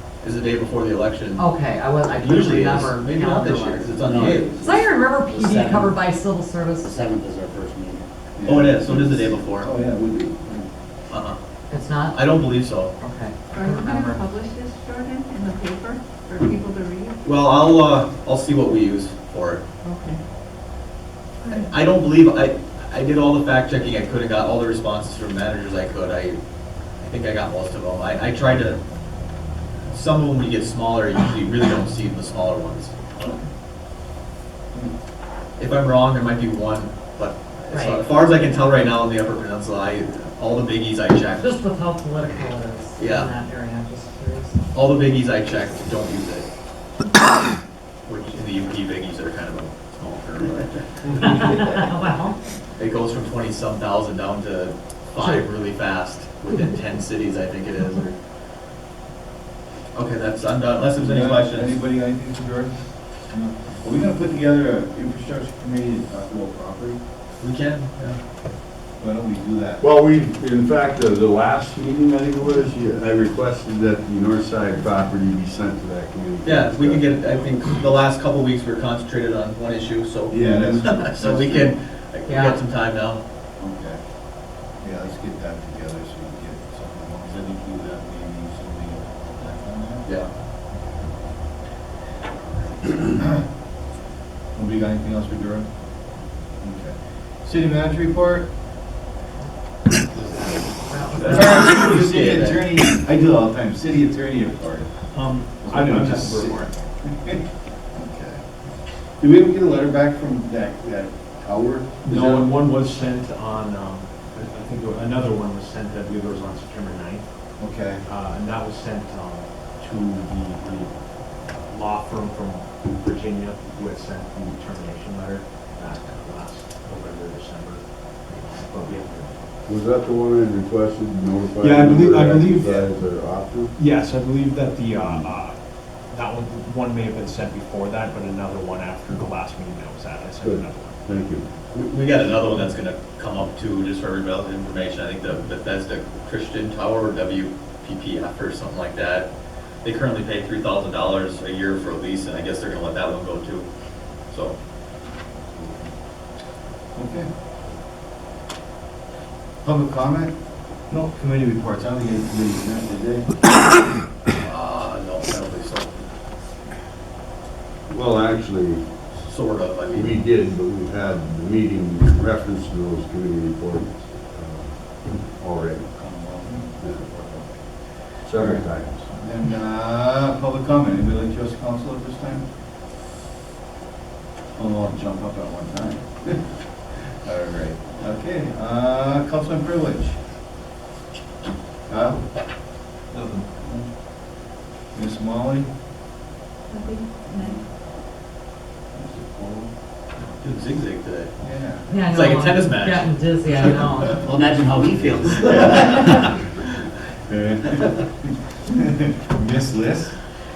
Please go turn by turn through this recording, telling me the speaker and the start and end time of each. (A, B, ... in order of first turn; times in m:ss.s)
0:00.2-0:01.4 A
0:01.4-0:03.9 B
0:02.1-0:04.6 A
0:03.7-0:05.9 C
0:04.6-0:06.9 B
0:06.8-0:08.0 C
0:08.4-0:10.7 D
0:08.4-0:09.7 A
0:11.1-0:11.4 A
0:11.7-0:12.3 B
0:12.1-0:12.9 A
0:12.8-0:14.2 B
0:13.5-0:17.3 E
0:17.2-0:19.6 A
0:19.8-0:20.2 E
0:21.4-0:21.7 E
0:21.5-0:26.4 A
0:27.0-0:28.8 A
0:29.9-0:33.2 A
0:33.2-0:33.4 D
0:35.6-0:41.5 A
0:37.7-0:38.1 B
0:41.4-0:44.6 B
0:43.0-0:43.3 A
0:44.7-0:46.5 A
0:48.1-0:51.6 A
0:51.2-0:52.4 B
0:52.8-0:58.1 A
0:55.2-0:55.4 B
0:59.9-1:01.7 A
1:01.0-1:02.7 D
1:03.8-1:07.0 D
1:07.4-1:08.2 A
1:09.0-1:09.8 D
1:09.8-1:17.2 F
1:16.4-1:23.2 A
1:20.3-1:21.8 D
1:20.4-1:20.7 F
1:22.2-1:22.6 B
1:23.6-1:24.0 D
1:24.8-1:30.0 D
1:32.9-1:33.4 D
1:34.5-1:35.7 D
1:36.6-1:38.5 D
1:40.1-1:42.6 A
1:40.7-1:41.6 B
1:41.2-1:44.9 D
1:45.1-1:46.7 G
1:45.6-1:47.4 D
1:47.9-1:48.4 D
1:49.2-1:52.5 D
1:52.0-1:57.2 G
1:57.6-1:58.0 D
1:58.0-2:00.9 G
2:01.4-2:09.6 G
2:09.7-2:13.7 F
2:11.6-2:13.0 G
2:13.8-2:15.6 G
2:15.0-2:15.3 F
2:16.1-2:21.0 G
2:20.4-2:21.4 F
2:21.7-2:29.3 A
2:29.8-2:33.7 A
2:34.3-2:34.6 A
2:35.5-2:35.9 D
2:37.0-2:37.3 D
2:39.6-2:40.3 D
2:40.9-2:43.3 D
2:44.4-2:46.0 A
2:47.9-2:48.9 F
2:49.1-2:50.1 A
2:49.9-2:55.9 F
2:55.9-2:57.5 D
2:56.8-2:57.1 F
2:58.2-2:59.1 F
2:58.4-3:02.4 D
3:04.5-3:06.4 D
3:07.2-3:10.2 D
3:11.9-3:12.2 D
3:13.3-3:13.9 D
3:14.9-3:15.7 D
3:16.7-3:17.6 E
3:17.3-3:17.6 D
3:18.9-3:19.7 D
3:20.4-3:21.3 A
3:21.4-3:21.9 D
3:21.9-3:24.2 B
3:21.9-3:24.1 A
3:24.2-3:26.1 C
3:25.4-3:26.1 A
3:27.3-3:30.1 D